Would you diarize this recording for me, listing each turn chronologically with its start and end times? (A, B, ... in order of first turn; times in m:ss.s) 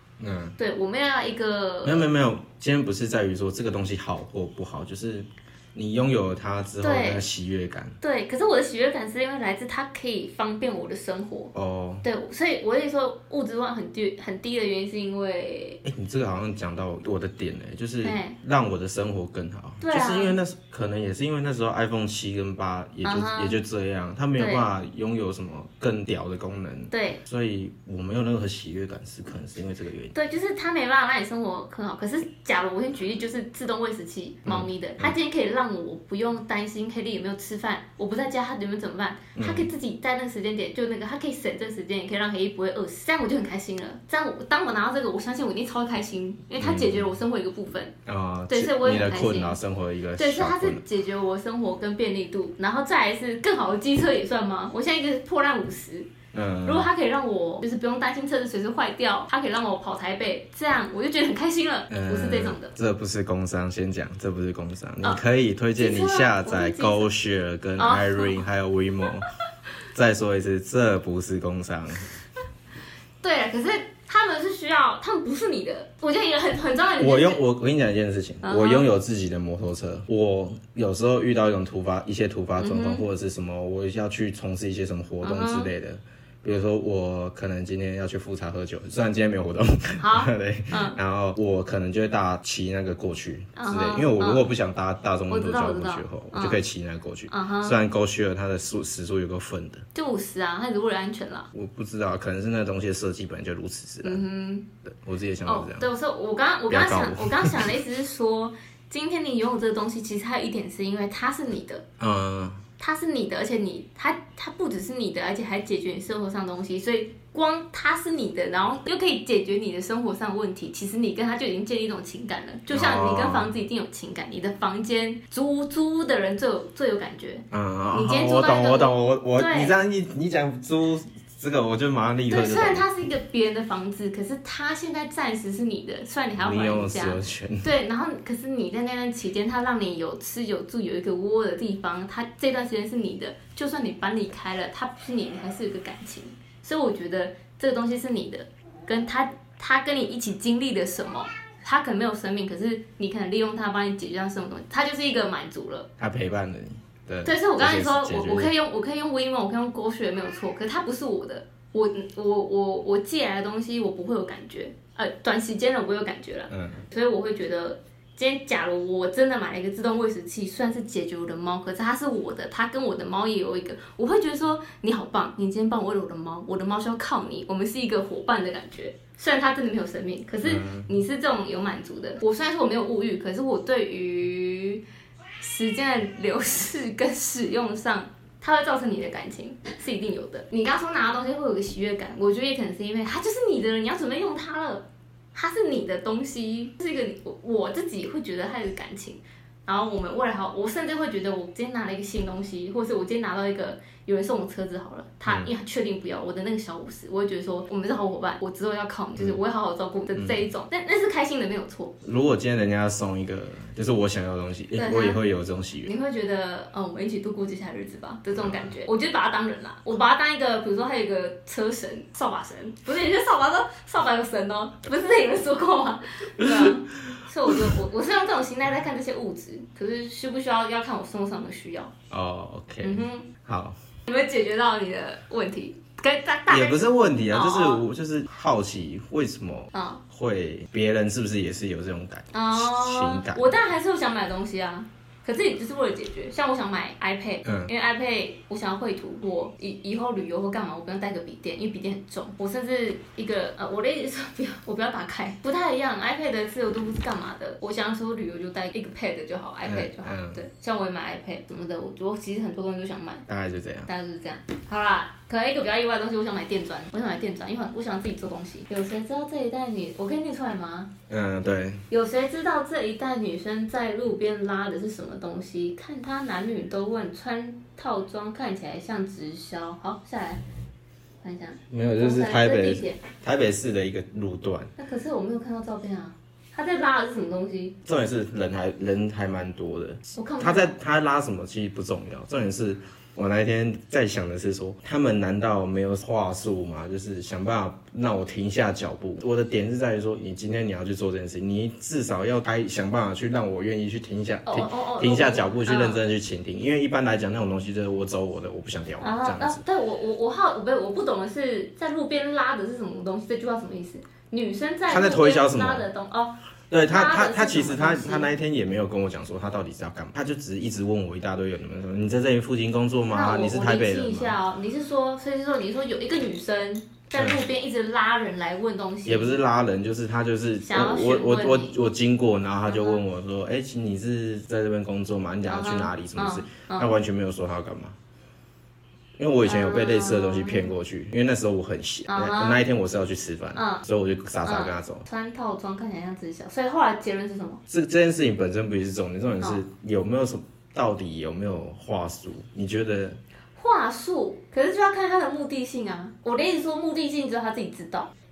0:00.2-0:00.6 A
0:00.6-0:02.1 B
0:01.8-0:08.0 A
0:06.8-0:07.2 B
0:08.0-0:11.5 B
0:11.5-0:12.0 A
0:12.0-0:15.8 B
0:15.8-0:30.1 A
0:18.0-0:18.4 B
0:19.8-0:20.4 B
0:23.0-0:23.6 B
0:24.4-0:24.7 B
0:26.9-0:27.2 B
0:30.1-0:47.9 B
0:34.4-0:35.2 A
0:39.4-0:39.7 A
0:46.6-0:47.0 A
0:48.0-0:50.8 A
0:48.5-0:49.6 B
0:50.2-0:56.1 B
0:56.3-0:56.9 A
0:56.6-1:02.7 B
1:01.9-1:09.3 A
1:05.8-1:07.1 B
1:07.8-1:08.4 B
1:09.9-1:12.1 A
1:13.2-1:17.4 B
1:17.0-1:39.8 A
1:18.4-1:18.9 B
1:22.6-1:23.0 B
1:25.2-1:25.7 B
1:30.0-1:31.0 B
1:33.6-1:34.5 B
1:35.3-1:36.6 B
1:37.3-1:37.8 B
1:39.9-1:41.5 B
1:41.5-1:44.2 A
1:44.0-1:44.7 B
1:44.8-1:45.9 A
1:45.4-1:51.8 B
1:46.7-1:47.6 A
1:52.0-1:52.6 A
1:52.8-2:09.7 B
2:02.7-2:03.5 A
2:07.5-2:12.8 A
2:12.3-2:35.9 B
2:16.4-2:17.7 A
2:36.0-2:38.5 A
2:37.2-3:04.8 B
2:46.5-2:46.8 A
3:00.4-3:00.9 A
3:05.4-3:32.0 B
3:30.1-3:30.4 A
3:32.0-3:35.9 A
3:34.7-3:35.2 B
3:35.8-3:51.9 B
3:38.4-3:38.6 A
3:46.4-3:47.7 A
3:52.1-3:53.8 A
3:52.8-3:53.3 B
3:54.1-3:57.8 B
3:56.5-4:03.5 A
3:59.7-4:00.0 B
4:02.3-4:23.2 B
4:07.4-4:07.7 A
4:19.6-4:20.4 A
4:23.3-4:23.9 A
4:23.8-4:30.9 B
4:31.1-4:31.8 A
4:31.9-4:40.4 B
4:41.2-4:43.0 B
4:41.7-4:44.7 A
4:44.8-4:47.8 B
4:47.8-5:09.6 A
4:50.1-4:50.7 B
5:04.4-5:06.0 B
5:09.0-5:16.4 B
5:14.9-5:15.8 A
5:16.7-5:24.3 A
5:16.9-5:18.3 B
5:23.1-5:29.4 B
5:29.0-5:38.0 A
5:30.6-5:31.8 B
5:32.7-5:33.0 B
5:35.5-5:36.9 B
5:39.2-5:45.0 A
5:39.4-5:40.7 B
5:42.1-5:42.6 B
5:43.5-5:43.8 B
5:44.4-5:47.6 B
5:47.7-5:53.2 A
5:53.6-5:58.1 B